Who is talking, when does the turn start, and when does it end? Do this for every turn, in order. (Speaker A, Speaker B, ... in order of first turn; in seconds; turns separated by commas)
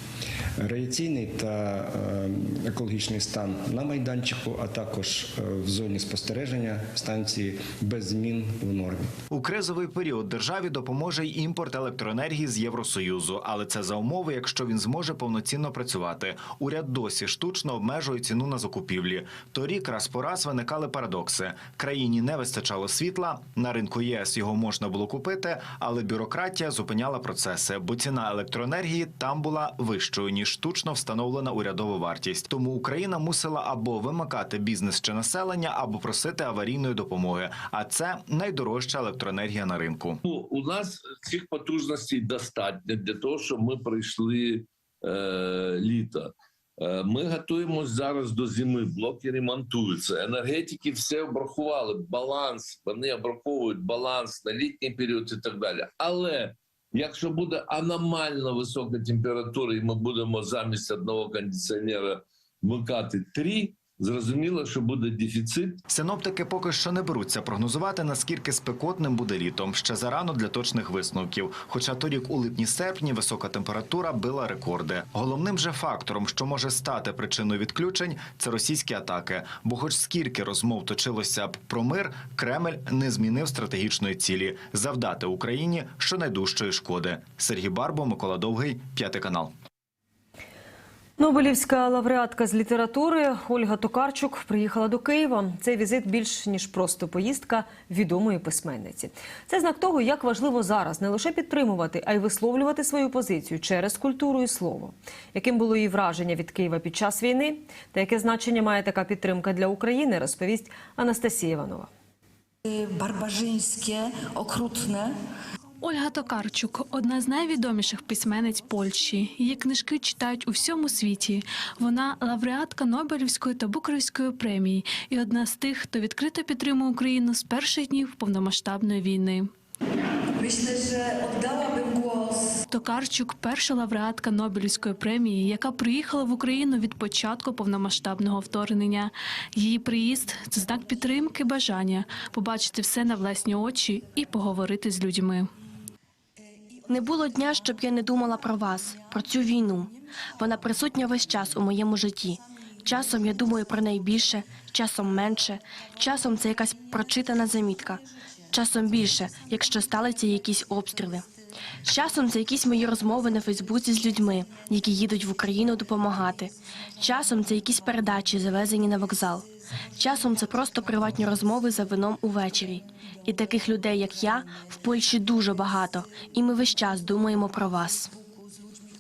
Speaker A: 0.6-9.1, Speaker B: 9.3-40.2, Speaker C: 40.2-65.8, Speaker B: 65.9-89.5, Speaker D: 91.2-111.9, Speaker E: 112.7-115.2, Speaker F: 115.8-129.5, Speaker E: 130.4-132.6, Speaker F: 132.7-145.5, Speaker G: 146.9-161.3, Speaker G: 161.8-178.1